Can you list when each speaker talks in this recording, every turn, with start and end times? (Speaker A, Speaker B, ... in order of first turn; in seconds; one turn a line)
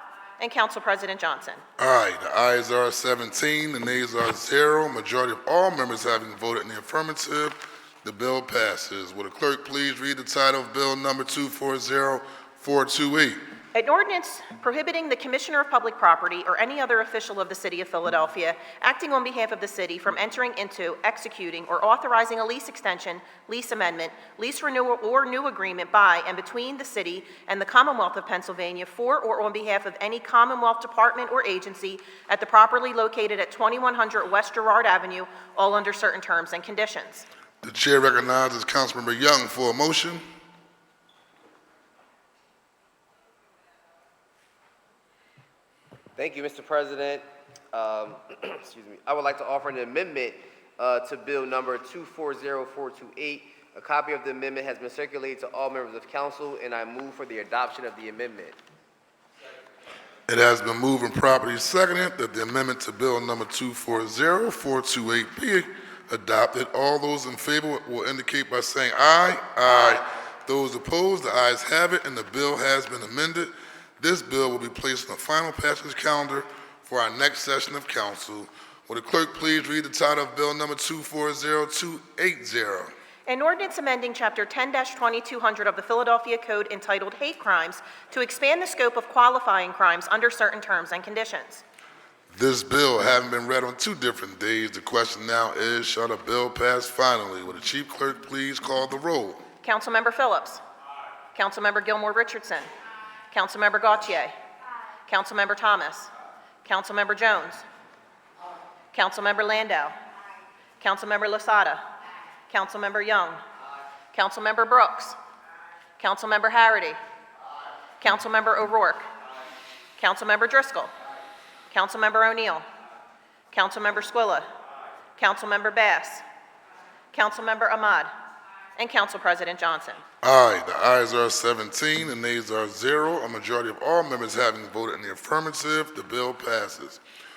Speaker A: 0.4-1.6
Speaker B: 1.8-13.4
Speaker A: 13.8-37.2
Speaker B: 37.6-40.2
Speaker C: 46.2-58.6
Speaker B: 60.3-82.9
Speaker A: 83.3-91.6
Speaker B: 92.3-99.4
Speaker A: 99.6-100.6
Speaker A: 101.3-102.7
Speaker A: 103.3-104.3
Speaker A: 105.1-106.1
Speaker A: 106.7-107.7
Speaker A: 108.9-110.0
Speaker A: 110.8-111.8
Speaker A: 112.5-113.4
Speaker A: 114.1-115.2
Speaker A: 116.0-117.0
Speaker A: 118.0-119.1
Speaker A: 120.0-120.9
Speaker A: 121.7-122.7
Speaker A: 123.5-124.5
Speaker A: 125.2-126.2
Speaker A: 127.1-128.1
Speaker A: 128.8-130.0
Speaker B: 130.2-137.0